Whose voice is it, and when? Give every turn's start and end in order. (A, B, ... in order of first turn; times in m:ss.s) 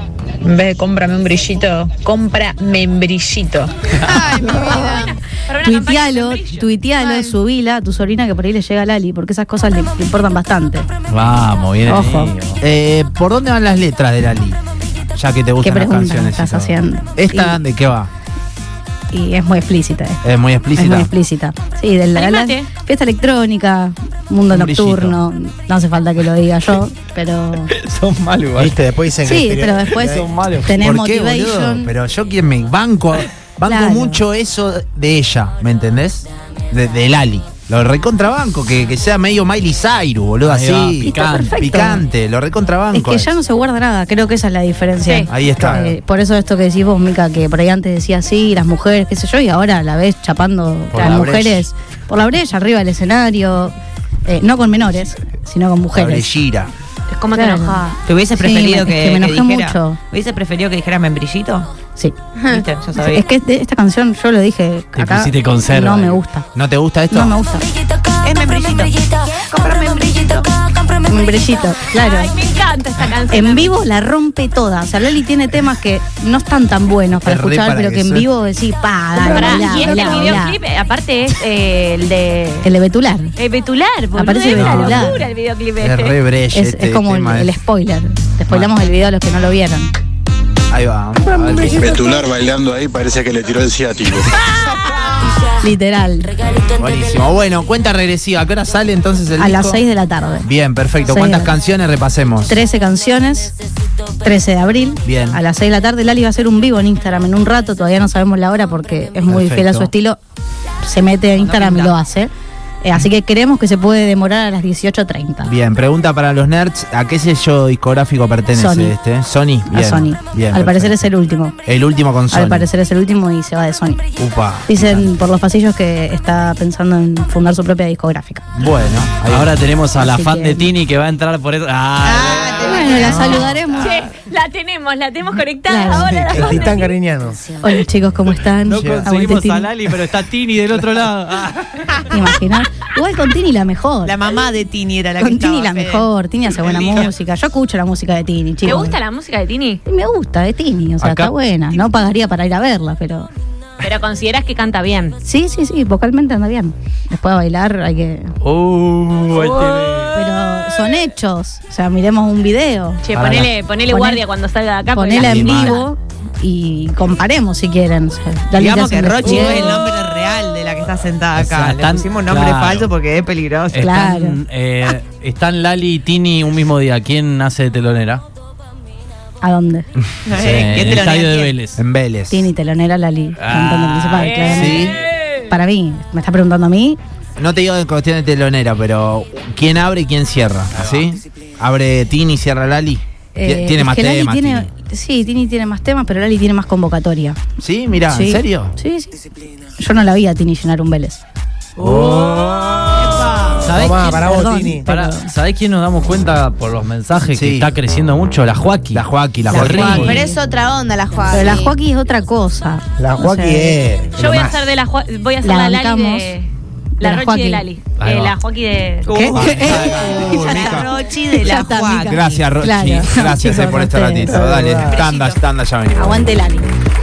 0:00.4-0:03.8 A
0:04.0-0:05.2 B
0:04.4-0:05.0 C
0:04.7-0:06.7 D
0:05.6-0:10.9 C
0:07.0-0:07.3 B
0:11.1-0:12.6 E
0:11.9-0:12.3 C
0:12.6-0:14.6 F
0:15.2-0:18.1 F
0:15.6-0:17.6 C
0:19.1-0:20.2 C
0:20.2-0:21.1 F
0:20.8-0:27.7 C
0:22.2-0:22.7 D
0:24.5-0:25.2 F
0:27.7-0:28.8 E
0:28.6-0:30.3 G
0:29.2-0:31.9 C
0:30.0-0:30.8 E
0:30.8-0:43.3 F
0:33.6-0:34.2 C
0:40.4-0:41.6 E
0:41.0-0:42.0 C
0:42.9-0:53.8 C
0:45.0-0:45.3 D
0:45.3-0:46.0 F
0:50.9-0:51.6 E
0:51.0-0:51.5 F
0:54.3-0:56.3 C
0:56.0-0:56.7 F
0:57.1-0:58.0 D
0:57.3-0:57.8 C
0:58.1-1:01.7 H
0:58.3-1:00.0 C
1:02.4-1:02.6 B
1:02.5-1:03.2 H
1:03.0-1:06.5 C
1:05.0-1:06.2 E
1:06.6-1:07.4 F
1:07.1-1:07.7 C
1:08.2-1:10.5 H
1:11.1-1:12.3 C
1:11.9-1:13.8 D
1:13.3-1:20.6 C
1:17.2-1:18.3 F
1:19.2-1:20.4 G
1:19.2-1:22.7 D
1:22.6-1:23.4 C
1:23.4-1:26.2 D
1:24.1-1:25.2 C
1:24.5-1:25.1 F
1:25.8-1:27.5 F
1:26.5-1:29.9 C
1:30.7-1:31.9 F
1:31.2-1:32.1 G
1:31.8-1:34.4 I
1:35.6-1:36.4 C
1:36.8-1:39.8 F
1:39.4-1:40.5 C
1:40.4-1:42.6 F
1:41.1-1:41.5 C
1:42.5-1:43.5 C
1:44.2-1:50.2 C
1:45.0-1:45.4 F
1:49.3-1:49.9 F
1:50.8-1:52.3 C
1:51.4-1:52.0 H
1:52.8-1:55.5 C
1:55.4-2:01.0 F
1:58.5-1:59.0 C
1:59.7-2:01.6 C
2:01.7-2:02.7 F
2:02.3-2:04.0 C
2:04.2-2:05.1 F
2:04.7-2:08.5 C
2:08.6-2:09.7 F
2:09.3-2:13.4 E
2:10.0-2:10.7 C
2:12.0-2:13.8 B
2:12.6-2:14.1 C
2:13.1-2:17.0 D
2:15.7-2:16.7 C
2:16.3-2:17.4 G
2:17.6-2:19.7 C
2:18.7-2:22.0 E
2:18.7-2:19.1 F
2:22.1-2:24.2 C
2:24.0-2:27.1 H
2:25.2-2:29.0 C
2:28.6-2:29.8 D
2:29.9-2:33.3 C
2:31.0-2:31.3 E
2:33.8-2:35.2 D
2:35.2-2:38.4 C
2:38.4-2:40.2 E
2:40.1-2:43.0 C
2:43.0-2:45.8 D
2:43.1-2:43.5 E
2:43.9-2:44.2 C
2:44.9-2:49.9 C
2:45.2-2:45.9 F
2:48.6-2:53.9 H
2:51.4-2:52.9 E
2:53.7-2:58.2 E
2:53.8-2:54.4 C
2:59.4-2:59.9 C
3:00.3-3:01.6 H
3:00.4-3:01.8 E
3:01.8-3:02.5 F
3:02.3-3:04.9 C
3:03.4-3:04.7 E
3:04.2-3:05.4 D
3:04.4-3:05.0 F
3:05.5-3:07.0 C
3:07.4-3:14.7 F
3:10.8-3:11.0 E
3:13.4-3:17.4 C
3:17.6-3:18.7 F
3:18.0-3:19.2 C
3:19.8-3:21.2 C
3:21.8-3:22.9 E
3:21.8-3:23.4 F
3:23.2-3:23.5 H
3:23.6-3:24.2 E
3:23.7-3:24.8 G
3:24.0-3:25.3 C
3:24.9-3:30.3 E
3:27.3-3:27.7 F
3:28.9-3:30.1 F
3:29.5-3:30.4 C
3:29.6-3:31.8 B
3:31.3-3:33.8 C
3:33.0-3:34.6 G
3:34.2-3:36.5 D
3:35.4-3:36.4 C
3:37.0-3:37.7 C
3:37.0-3:39.1 D
3:38.0-3:38.4 E
3:39.0-3:42.5 H
3:39.1-3:40.8 C
3:39.3-3:41.0 F
3:41.3-3:44.5 C
3:42.0-3:46.2 F
3:44.3-3:45.0 G
3:44.8-3:45.4 H
3:46.0-3:46.7 C